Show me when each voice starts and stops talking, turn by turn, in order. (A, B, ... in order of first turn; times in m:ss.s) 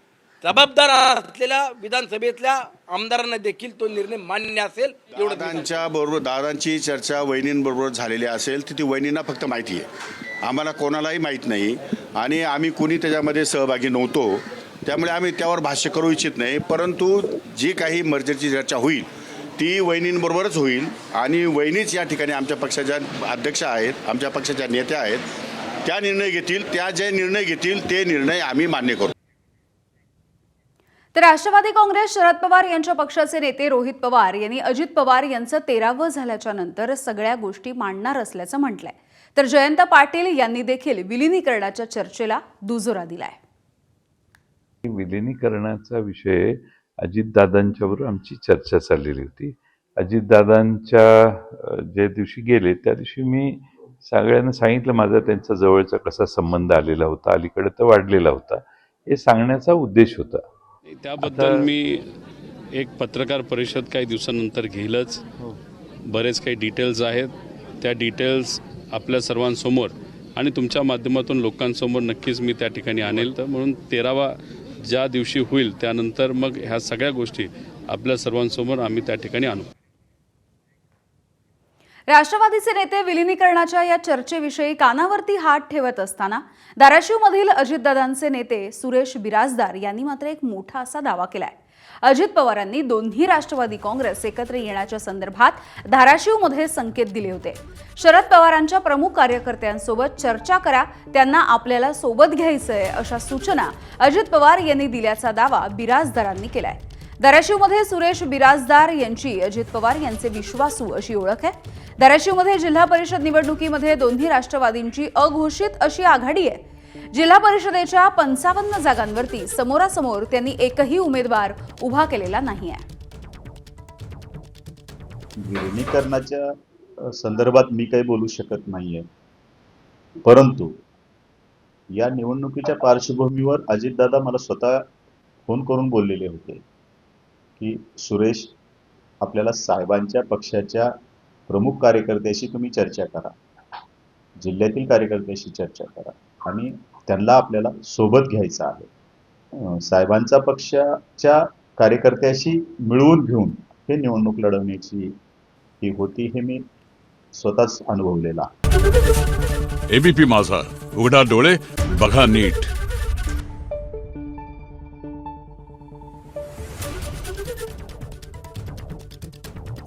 0:00.4-0:05.8 A
0:05.2-0:09.9 B
0:10.4-0:25.2 B
0:25.8-0:29.1 B
0:31.1-0:43.4 C
0:44.8-1:00.4 D
1:00.9-1:02.0 E
1:01.2-1:01.7 D
1:02.7-1:05.2 E
1:06.1-1:14.3 E
1:14.8-1:19.7 E
1:22.1-2:02.8 C
2:05.4-2:06.4 F
2:07.1-2:09.0 F
2:10.2-2:10.7 F
2:11.9-2:14.8 F
2:15.5-2:16.6 F
2:17.6-2:18.5 F
2:19.2-2:20.9 F
2:21.5-2:23.3 F
2:24.4-2:28.9 F
2:29.6-2:35.1 F
2:35.8-2:36.6 F
2:37.4-2:38.5 F
2:39.9-2:42.7 G